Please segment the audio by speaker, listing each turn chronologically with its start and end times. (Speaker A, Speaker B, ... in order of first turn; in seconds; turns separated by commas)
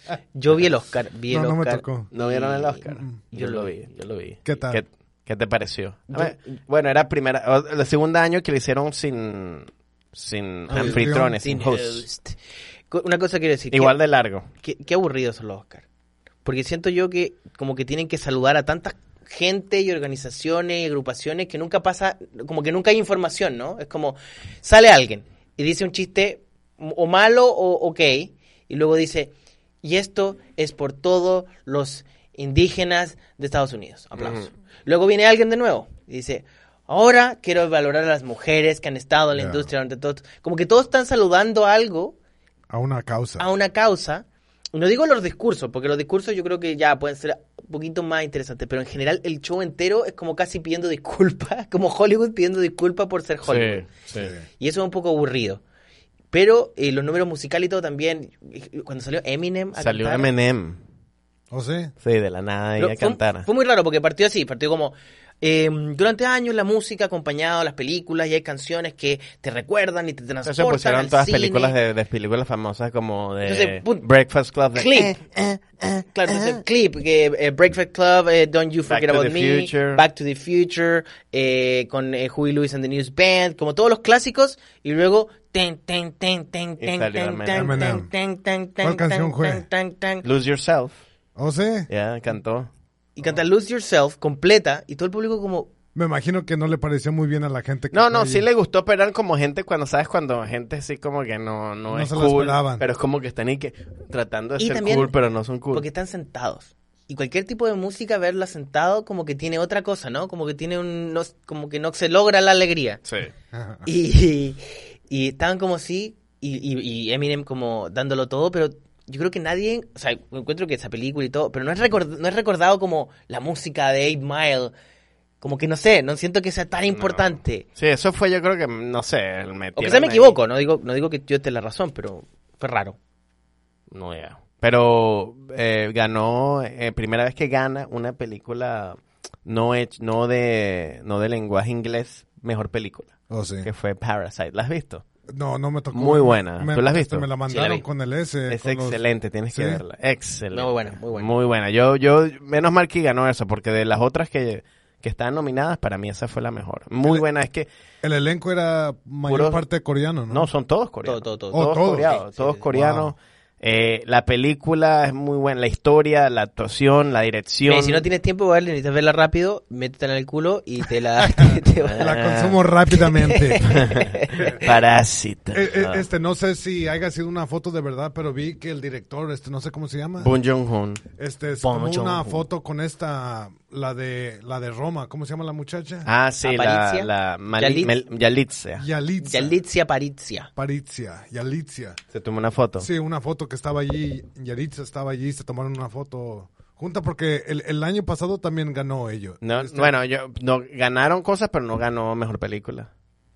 Speaker A: 0.3-3.8, Speaker B: 1.3-2.1, Speaker C: 2.1-12.0, Speaker B: 4.4-4.8, Speaker A: 6.1-6.5, Speaker A: 10.7-12.4, Speaker B: 10.7-11.4, Speaker A: 12.9-14.0, Speaker C: 13.7-14.5, Speaker A: 14.5-15.8, Speaker A: 16.4-42.1, Speaker C: 34.1-34.5, Speaker B: 39.3-39.7, Speaker B: 42.7-43.5, Speaker A: 43.4-53.9, Speaker C: 53.4-54.3, Speaker B: 54.1-54.4, Speaker A: 54.6-55.6, Speaker A: 56.3-60.3, Speaker C: 59.8-60.8, Speaker B: 61.5-61.9, Speaker C: 62.0-63.5, Speaker A: 62.8-71.7, Speaker C: 70.4-76.6, Speaker A: 73.4-74.1, Speaker A: 74.7-75.2, Speaker A: 76.1-90.2, Speaker C: 78.9-80.0, Speaker C: 86.8-87.8, Speaker B: 87.5-88.1, Speaker B: 88.8-89.6, Speaker C: 90.2-91.0, Speaker B: 91.3-91.9, Speaker C: 91.9-92.7, Speaker A: 93.2-95.7, Speaker B: 95.9-98.4, Speaker C: 97.9-105.8, Speaker B: 101.9-102.8, Speaker A: 104.6-105.1, Speaker A: 105.7-113.0, Speaker C: 113.0-113.3, Speaker B: 113.5-113.8, Speaker A: 113.8-124.7, Speaker A: 125.4-127.6, Speaker C: 126.9-130.3, Speaker A: 129.8-133.0, Speaker C: 133.9-145.0, Speaker B: 143.3-143.7, Speaker B: 145.3-149.8, Speaker C: 145.9-147.3, Speaker A: 147.5-147.8, Speaker C: 148.5-157.7, Speaker A: 150.5-151.3, Speaker B: 158.0-160.5, Speaker C: 159.3-159.6, Speaker C: 160.3-168.0, Speaker A: 161.0-162.6, Speaker B: 161.5-162.2, Speaker B: 162.7-163.1, Speaker A: 167.7-172.1, Speaker B: 171.3-173.7, Speaker C: 171.9-172.6, Speaker A: 172.9-174.6, Speaker C: 173.6-176.1, Speaker B: 175.5-180.3, Speaker C: 180.2-181.0, Speaker B: 181.2-186.1, Speaker A: 181.6-182.4, Speaker C: 186.1-188.8, Speaker A: 186.4-187.9, Speaker B: 188.8-189.6, Speaker A: 189.2-190.5, Speaker B: 190.6-192.0, Speaker C: 192.1-192.9, Speaker B: 192.8-199.9, Speaker C: 199.4-202.9